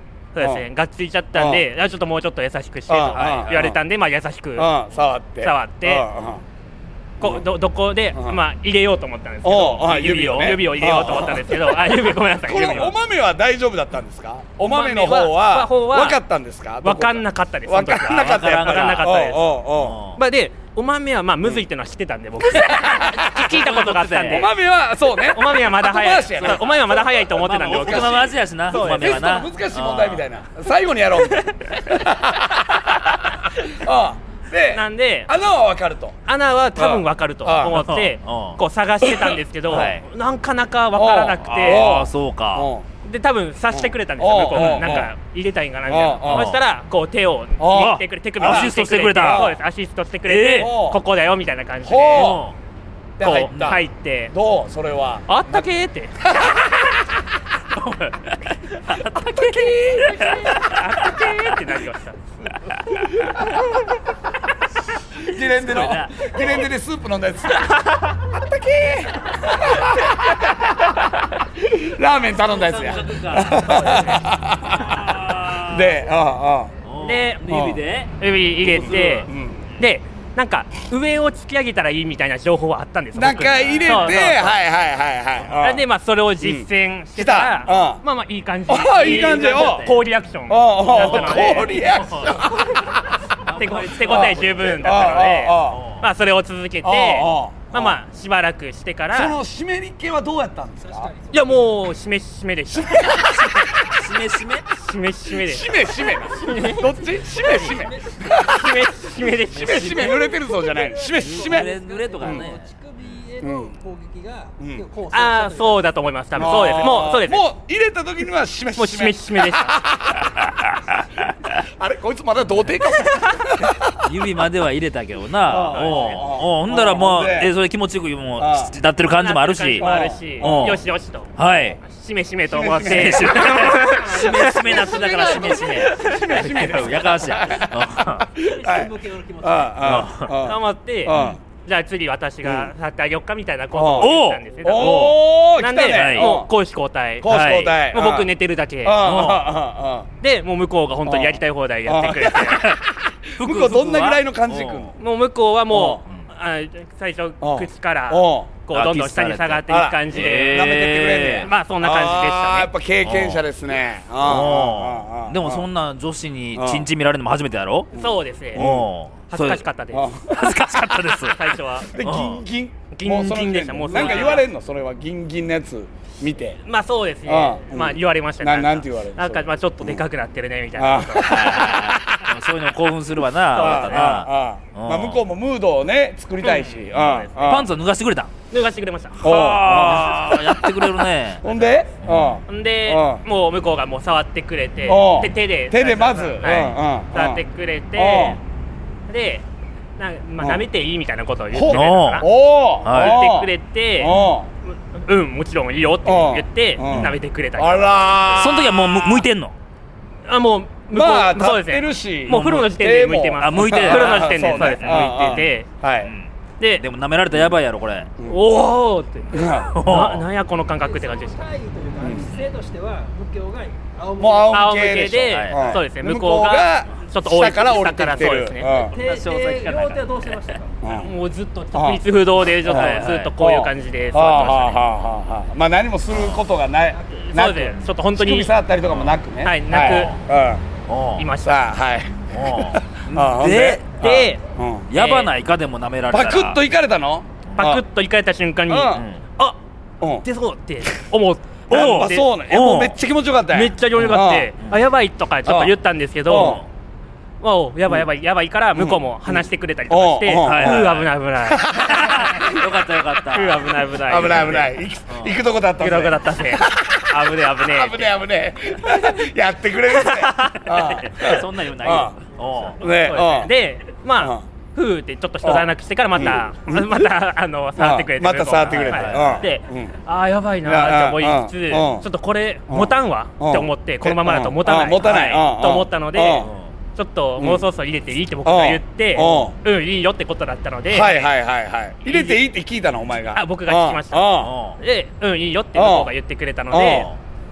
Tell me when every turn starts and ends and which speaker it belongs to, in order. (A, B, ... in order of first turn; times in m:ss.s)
0:00.4-0:04.7 A
0:01.3-0:01.6 B
0:02.9-0:03.8 B
0:03.1-0:03.7 C
0:04.6-0:06.4 B
0:05.4-0:06.1 A
0:07.2-0:13.0 A
0:08.1-0:08.4 B
0:09.4-0:20.0 B
0:14.6-0:16.2 A
0:16.8-0:19.5 A
0:18.1-0:19.2 C
0:19.8-0:20.2 C
0:20.2-0:24.5 A
0:22.6-0:23.3 B
0:23.3-0:24.5 C
0:24.3-0:36.2 B
0:25.3-0:29.2 A
0:26.4-0:30.2 C
0:31.3-0:31.7 A
0:34.7-0:35.3 A
0:36.2-0:41.9 A
0:36.8-0:37.9 B
0:37.8-0:38.6 C
0:39.7-0:40.0 C
0:41.0-0:42.8 B
0:41.4-0:42.7 C
0:43.0-0:52.4 A
0:43.7-0:45.1 B
0:44.6-0:45.1 C
0:45.9-0:46.5 B
0:46.2-0:46.6 C
0:47.6-0:49.6 B
0:47.7-0:49.5 C
0:50.3-0:50.7 C
0:50.6-0:51.0 B
0:51.8-0:52.4 B
0:52.1-0:52.6 C
0:53.2-0:55.6 B
0:53.2-0:54.3 A
0:53.5-0:53.8 C
0:55.3-0:56.6 A
0:56.2-0:56.7 B
0:57.7-1:00.8 C
0:59.2-1:00.5 B
0:59.2-1:02.2 A
1:03.2-1:03.4 B
1:03.3-1:03.7 A
1:05.2-1:16.7 B
1:05.4-1:06.6 C
1:12.4-1:14.1 C
1:13.6-1:14.2 A
1:14.7-1:16.0 C
1:16.8-1:18.1 C
1:17.0-1:17.5 A
1:17.4-1:17.8 B
1:18.2-1:24.6 A
1:18.6-1:19.2 C
1:18.7-1:19.6 B
1:23.1-1:25.8 B
1:23.5-1:24.3 C
1:25.6-1:32.3 A
1:26.4-1:28.0 B
1:28.7-1:29.9 B
1:29.0-1:30.0 C
1:30.5-1:33.0 B
1:31.0-1:31.9 C
1:33.4-1:36.0 C
1:33.5-1:39.4 A
1:34.1-1:35.8 B
1:36.8-1:38.0 B
1:39.1-1:41.1 B
1:40.8-1:41.8 D
1:41.3-1:43.7 A
1:42.8-1:43.5 B
1:43.8-1:44.7 C
1:44.7-1:46.9 A
1:45.3-1:48.7 B
1:47.4-1:48.8 D
1:48.3-1:50.2 A
1:49.5-1:50.2 C
1:49.5-1:52.5 B
1:50.0-1:56.0 D
1:51.2-1:52.7 C
1:53.4-1:53.7 B
1:54.6-1:54.8 B
1:55.1-1:57.4 A
1:56.4-2:00.5 B
1:58.8-1:59.8 A
2:00.4-2:01.0 C
2:01.6-2:04.1 B
2:04.0-2:10.8 C
2:05.5-2:07.5 B
2:05.7-2:06.3 A
2:08.4-2:08.7 B
2:09.1-2:14.6 A
2:09.8-2:10.8 B
2:11.4-2:11.8 C
2:12.5-2:21.4 B
2:12.8-2:18.3 C
2:13.8-2:15.5 D
2:15.9-2:16.4 A
2:18.4-2:20.1 D
2:19.8-2:20.3 C
2:20.4-2:29.4 A
2:21.1-2:21.4 C
2:22.4-2:22.7 B
2:23.7-2:26.5 B
2:24.0-2:25.1 C
2:25.9-2:26.4 C
2:27.2-2:28.3 B
2:27.3-2:27.8 C
2:28.8-2:30.1 B
2:29.1-2:29.4 C
2:30.2-2:32.6 A
2:31.0-2:35.0 B
2:32.4-2:32.8 C
2:33.4-2:34.9 C
2:35.0-2:40.8 A
2:35.7-2:36.0 B
2:37.4-2:38.5 B
2:38.7-2:41.5 C
2:39.7-2:45.6 B
2:41.4-2:42.7 A
2:43.0-2:43.4 C
2:44.2-2:47.9 C
2:46.6-2:46.9 B
2:47.9-2:48.9 B
2:47.9-2:48.6 A
2:48.6-2:49.6 C
2:49.3-2:50.1 A
2:49.9-2:50.6 B
2:50.3-2:51.4 C
2:51.3-2:51.9 A
2:51.9-2:56.6 B
2:52.0-2:52.4 C
2:52.9-2:54.5 A
2:53.9-2:54.4 C
2:56.6-3:01.6 A
2:57.2-3:00.0 B
3:00.8-3:02.4 B
3:01.2-3:05.2 C
3:03.5-3:04.2 A
3:03.6-3:07.7 B
3:06.4-3:07.6 A
3:07.4-3:08.3 C
3:08.5-3:09.4 A
3:09.2-3:12.4 C
3:09.2-3:13.2 B
3:12.5-3:18.4 A
3:14.9-3:17.4 B
3:18.0-3:18.4 B
3:19.1-3:19.4 A
3:20.0-3:22.3 A
3:21.5-3:24.5 B
3:21.7-3:22.2 C
3:22.8-3:23.2 C
3:22.9-3:24.1 A
3:24.9-3:28.2 A
3:26.0-3:29.2 B
3:26.9-3:27.2 C
3:28.4-3:29.5 C
3:30.2-3:35.7 A
3:30.9-3:36.1 B
3:32.3-3:32.6 C
3:33.4-3:35.5 C
3:36.0-3:38.1 C
3:38.2-3:41.5 A
3:39.3-3:39.7 B
3:39.4-3:39.7 D
3:39.7-3:40.2 C
3:40.8-3:44.7 D
3:42.0-3:42.3 B
3:44.2-3:49.0 B
3:44.5-3:48.7 A
3:45.3-3:45.8 C
3:48.7-3:50.4 C
3:48.9-3:51.1 D
3:50.8-3:51.1 B
3:51.0-3:54.8 A
3:51.7-3:52.0 B
3:52.6-3:53.3 C
3:52.6-4:00.6 B
3:56.1-3:56.4 C
3:57.2-3:58.5 A
3:58.8-3:59.1 C
3:59.4-4:00.1 A
3:59.8-4:00.2 C
4:00.9-4:01.3 C
4:01.2-4:01.6 A
4:01.4-4:04.9 B
4:02.3-4:03.8 C
4:03.9-4:04.4 A
4:04.9-4:06.6 C
4:04.9-4:05.3 A
4:06.1-4:07.8 B
4:07.6-4:09.6 A
4:08.7-4:09.0 B
4:08.9-4:09.2 C
4:10.2-4:12.3 A
4:11.7-4:14.5 B
4:11.7-4:12.9 C
4:13.5-4:16.6 A
4:14.0-4:14.8 C
4:15.4-4:15.7 B
4:16.3-4:16.6 B
4:16.3-4:16.6 C
4:17.4-4:22.4 A
4:18.8-4:22.6 B
4:20.4-4:21.1 C
4:21.9-4:23.8 C
4:23.3-4:24.7 A
4:24.0-4:32.1 B
4:25.1-4:25.4 C
4:25.8-4:28.1 A
4:29.9-4:31.4 A
4:31.1-4:32.8 C
4:32.8-4:33.5 B
4:32.9-4:51.3 A
4:34.2-4:34.4 B
4:35.4-4:37.1 B
4:37.8-4:39.9 B
4:38.7-4:39.4 C
4:40.6-4:42.1 B
4:42.7-4:46.5 B
4:46.3-4:46.7 C
4:47.4-4:47.6 B
4:48.4-4:49.6 B
4:50.9-4:54.5 B
4:52.0-4:52.4 A
4:53.3-4:57.1 A
4:54.4-4:54.8 C
4:55.8-4:56.1 B
4:56.7-4:57.1 B
4:56.8-4:57.1 C